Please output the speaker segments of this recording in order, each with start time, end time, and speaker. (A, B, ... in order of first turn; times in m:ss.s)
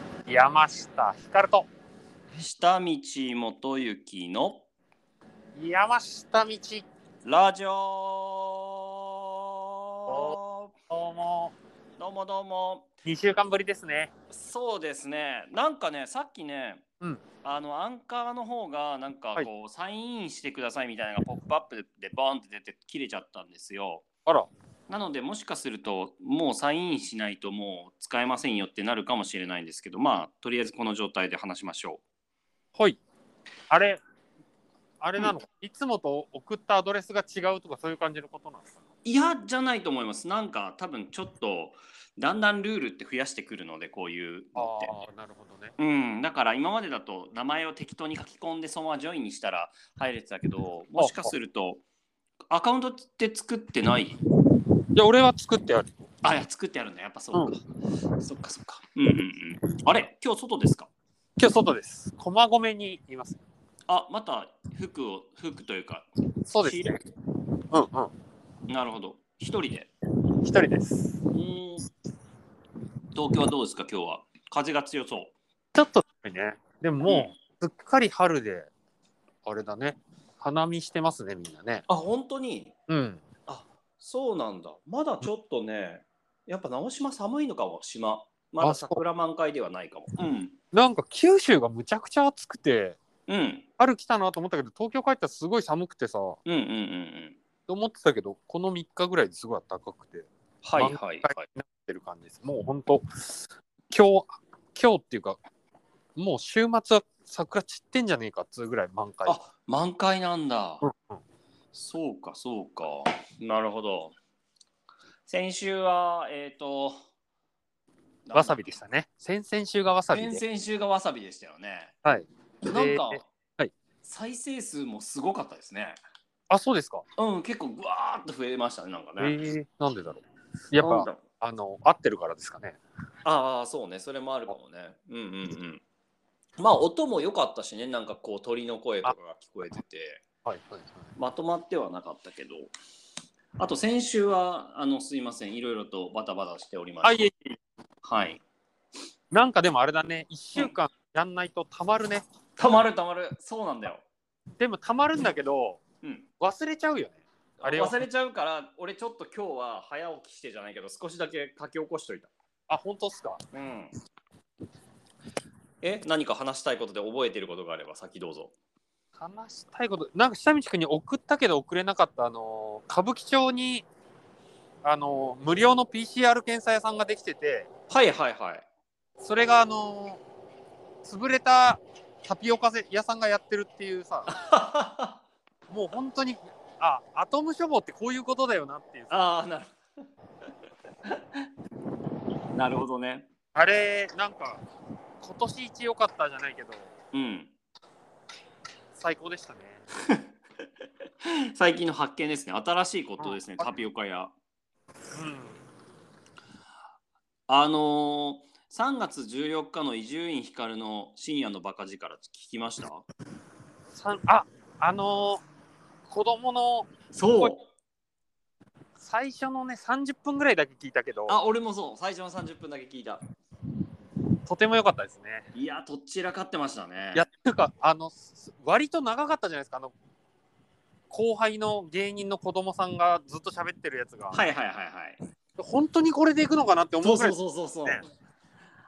0:00.3-0:01.7 A
0:02.4-0:04.7 B
0:05.6-0:06.9 A
0:07.2-0:10.7 B
0:10.1-0:10.4 A
0:10.9-0:11.6 A
0:12.0-0:12.9 B
0:13.0-0:14.1 A
0:14.3-0:16.8 B
0:17.4-0:24.0 B
0:24.9-0:32.0 B
0:33.7-0:34.0 A
0:35.0-0:38.8 A
0:39.0-0:44.9 B
0:44.6-0:45.8 A
0:45.8-0:51.8 B
0:51.0-0:51.3 A
0:52.5-0:54.2 B
0:54.9-0:56.0 A
0:56.2-0:57.6 B
0:58.2-1:00.9 B
1:01.4-1:03.4 A
1:03.9-1:06.1 B
1:06.5-1:07.0 A
1:06.6-1:07.0 B
1:07.7-1:08.1 A
1:08.7-1:09.9 B
1:10.4-1:11.2 A
1:11.3-1:11.8 B
1:13.1-1:15.3 B
1:15.8-1:18.7 A
1:17.1-1:17.4 B
1:19.4-1:21.8 A
1:21.9-1:22.7 B
1:22.9-1:23.2 A
1:23.5-1:30.6 B
1:28.6-1:29.0 A
1:30.7-1:33.0 A
1:33.3-1:33.7 B
1:33.8-1:36.4 A
1:36.4-1:37.4 B
1:37.7-1:45.4 A
1:40.6-1:41.4 B
1:46.2-1:49.4 A
1:49.2-1:50.8 B
1:50.8-1:51.2 A
1:51.7-1:54.2 B
1:55.3-1:57.0 B
1:58.3-1:58.6 B
1:58.4-2:00.4 A
2:00.1-2:02.0 B
2:02.0-2:03.7 A
2:02.6-2:03.3 B
2:04.0-2:06.0 B
2:06.5-2:07.0 A
2:07.2-2:09.4 B
2:09.2-2:12.8 A
2:10.8-2:11.2 B
2:13.2-2:15.8 B
2:16.6-2:20.2 B
2:20.4-2:21.0 A
2:21.2-2:22.7 B
2:23.6-2:27.3 B
2:27.0-2:27.6 A
2:28.0-2:28.4 B
2:29.3-2:32.2 A
2:32.6-2:34.0 B
2:34.6-2:35.8 A
2:36.0-2:36.3 B
2:36.4-2:38.0 A
2:37.6-2:42.3 B
2:42.7-2:43.4 A
2:43.5-2:43.9 B
2:45.8-2:48.5 B
2:49.2-2:53.9 A
2:54.8-2:57.7 A
2:57.9-2:58.7 B
2:59.2-3:00.2 A
3:01.0-3:04.3 A
3:04.3-3:05.2 B
3:05.7-3:09.2 A
3:09.1-3:09.8 B
3:11.0-3:11.5 B
3:12.5-3:13.3 B
3:13.6-3:14.6 A
3:15.2-3:16.9 A
3:17.1-3:17.5 B
3:18.9-3:19.8 A
3:21.2-3:24.3 B
3:23.2-3:23.7 A
3:25.1-3:25.6 A
3:27.5-3:33.1 B
3:33.9-3:35.4 A
3:36.1-3:37.5 A
3:37.1-3:37.7 B
3:39.0-3:41.4 A
3:41.3-3:43.2 B
3:44.5-3:45.5 A
3:45.5-3:47.2 B
3:47.2-3:49.9 A
3:51.1-3:54.4 A
3:54.3-3:55.2 B
3:55.6-3:58.0 A
3:57.0-3:58.1 B